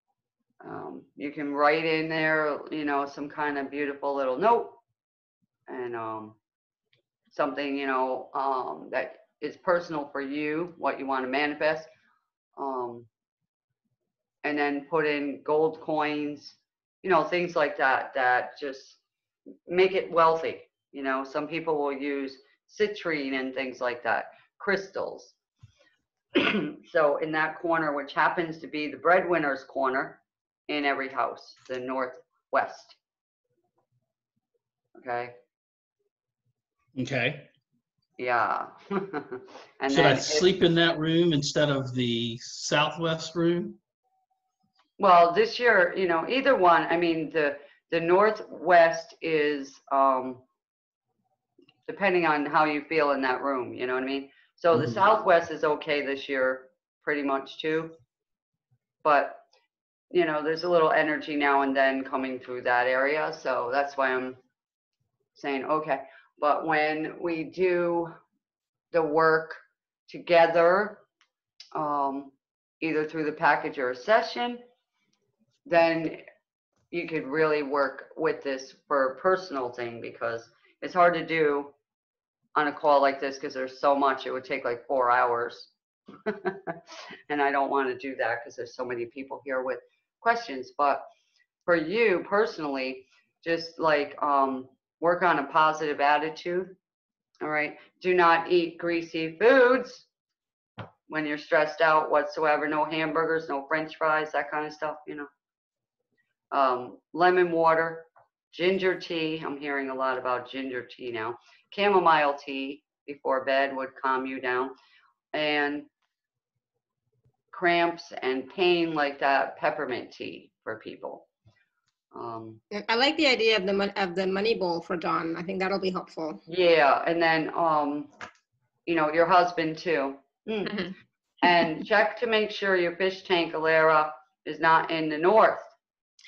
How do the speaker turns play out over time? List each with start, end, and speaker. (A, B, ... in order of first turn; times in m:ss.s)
0:00.6-0:04.8 A
0:05.7-0:06.4 A
0:07.3-0:11.9 A
0:12.6-0:13.1 A
0:14.4-0:19.0 A
0:19.7-0:25.4 A
0:26.3-0:33.0 A
0:35.0-0:35.4 A
0:37.0-0:37.5 B
0:38.2-0:40.5 A
0:39.9-0:43.8 B
0:45.0-0:50.4 A
0:51.9-0:58.0 A
0:59.0-0:59.4 A
1:00.1-1:04.4 A
1:05.4-1:08.1 A
1:08.9-1:11.0 A
1:11.7-1:14.6 A
1:15.7-1:16.2 A
1:16.9-1:21.7 A
1:22.6-1:25.7 A
1:26.2-1:31.0 A
1:31.7-1:36.8 A
1:37.4-1:40.1 A
1:41.1-1:45.3 A
1:46.5-1:54.8 A
1:55.3-1:55.9 A
1:57.5-2:01.3 A
2:02.1-2:02.6 A
2:02.7-2:06.4 C
2:06.5-2:08.1 A
2:08.9-2:10.8 A
2:10.7-2:11.0 C
2:11.4-2:15.8 A